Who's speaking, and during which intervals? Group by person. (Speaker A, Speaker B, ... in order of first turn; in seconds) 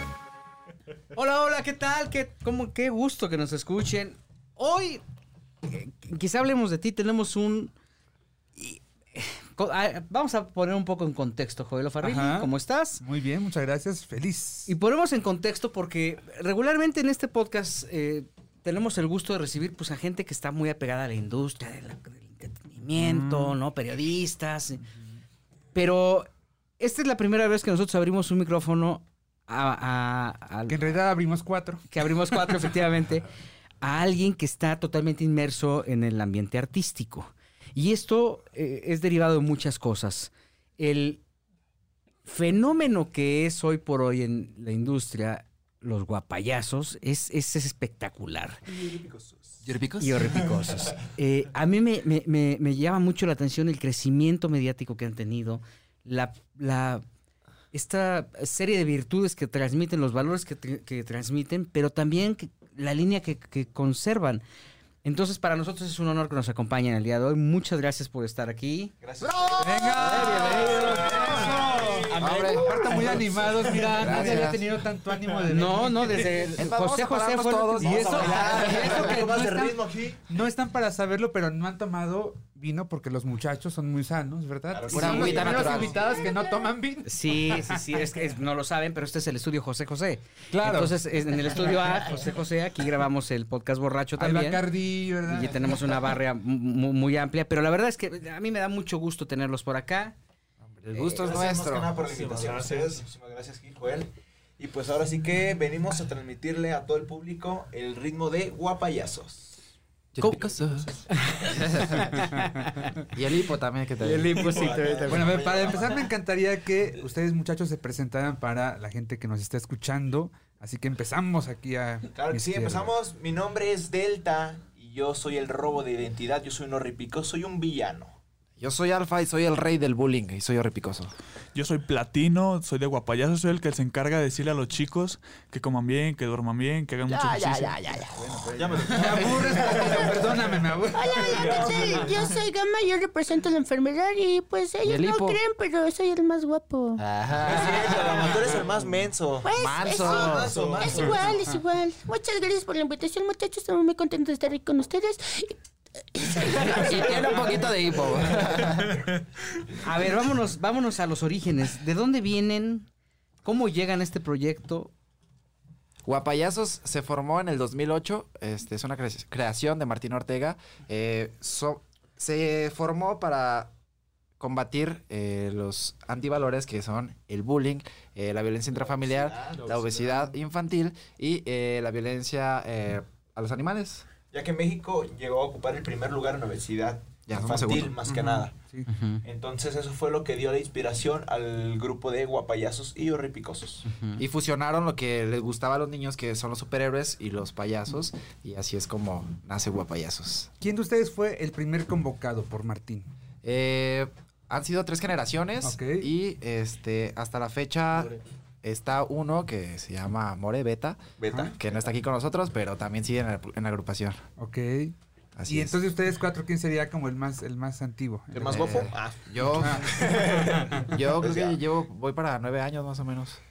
Speaker A: 1.1-5.0, 5.7-7.7, 8.6-13.0, 14.7-24.8, 25.7-26.3, 26.8-30.8, 31.9-33.3, 33.8-41.2, 42.2-48.6, 50.0-57.0, 57.7-64.4, 65.0-68.9, 70.0-71.5, 75.5-78.6, 87.0-94.6, 95.2-100.2, 111.1-113.0, 114.0-115.3, 159.8-162.9, 163.4-164.9, 188.9-189.2, 193.9-194.2
Speaker B: 12.0-14.7, 23.0-23.6, 30.7-31.9, 69.6-76.5, 77.7-87.8, 90.5-91.0, 94.2-96.0, 115.1-122.9, 138.4-141.8, 188.1-188.9, 200.6-203.1, 205.6-206.1, 211.3-211.6, 214.4-214.9, 215.5-218.8, 219.6-220.8
Speaker C: 48.7-49.5, 69.0-74.1, 77.8-80.2, 84.7-86.1, 101.1-109.6, 110.5-110.9, 114.4-116.1, 122.1-128.2, 138.5-140.5, 141.4-141.7, 147.4-151.4, 178.9-180.3, 184.3-188.5, 189.2-193.8, 211.2-211.9, 218.3-221.6
Speaker D: 49.6-50.7, 69.2-71.3, 72.2-72.8, 73.9-74.6, 76.5-79.0, 84.9-86.0, 100.8-101.9, 110.2-110.9, 111.4-112.2, 113.1-115.0, 128.6-131.1, 137.1-138.3, 144.8-145.4, 147.0-148.4, 149.5-150.6, 156.4-159.0, 166.0-173.7, 174.4-184.1, 187.3-188.0, 194.2-200.5, 203.4-211.0, 211.6-214.2, 215.3-215.8, 218.4-223.4
Speaker E: 86.2-86.6, 140.9-147.0, 149.4-155.6, 156.1-157.7
Speaker F: 102.0-103.0, 131.5-138.1, 141.3-142.3, 150.5-151.0, 158.8-159.2